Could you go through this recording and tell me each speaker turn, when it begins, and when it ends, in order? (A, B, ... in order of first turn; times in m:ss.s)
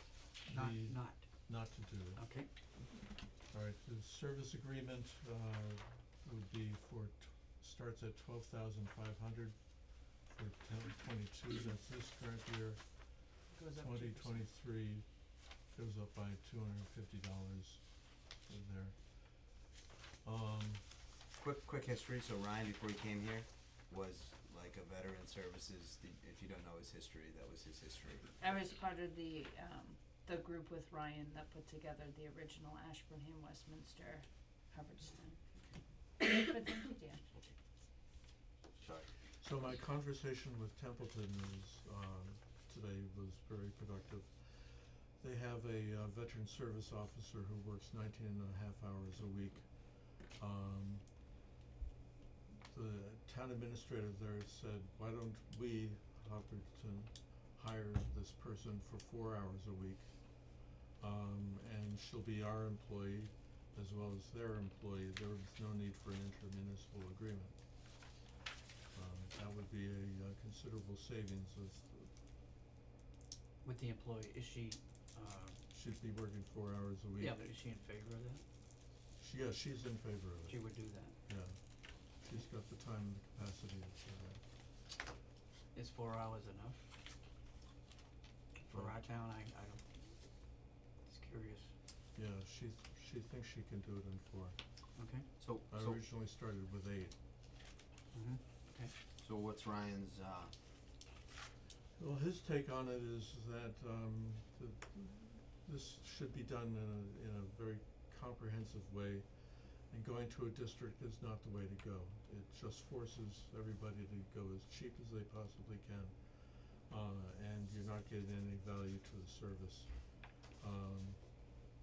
0:00.5-0:01.2 A
0:00.5-0:02.2 B
0:02.2-0:02.5 A
0:03.5-0:15.1 B
0:13.5-0:14.4 C
0:15.7-0:17.9 B
0:18.4-0:19.5 B
0:20.2-0:20.8 B
0:21.3-0:28.3 D
0:28.4-0:35.6 C
0:36.2-0:37.2 C
0:37.3-0:37.6 D
0:38.8-0:39.1 D
0:39.4-0:51.1 B
0:52.5-1:07.6 B
1:08.9-1:12.1 B
1:13.6-1:15.6 A
1:15.7-1:17.4 B
1:17.2-1:18.4 A
1:19.2-1:20.6 B
1:20.5-1:21.2 A
1:21.3-1:24.4 B
1:25.7-1:26.9 A
1:28.6-1:29.8 A
1:28.7-1:29.0 B
1:31.0-1:31.7 A
1:32.2-1:34.6 B
1:35.0-1:35.3 A
1:35.4-1:36.0 D
1:35.7-1:37.2 B
1:38.1-1:38.9 A
1:39.2-1:40.5 D
1:42.0-2:01.2 B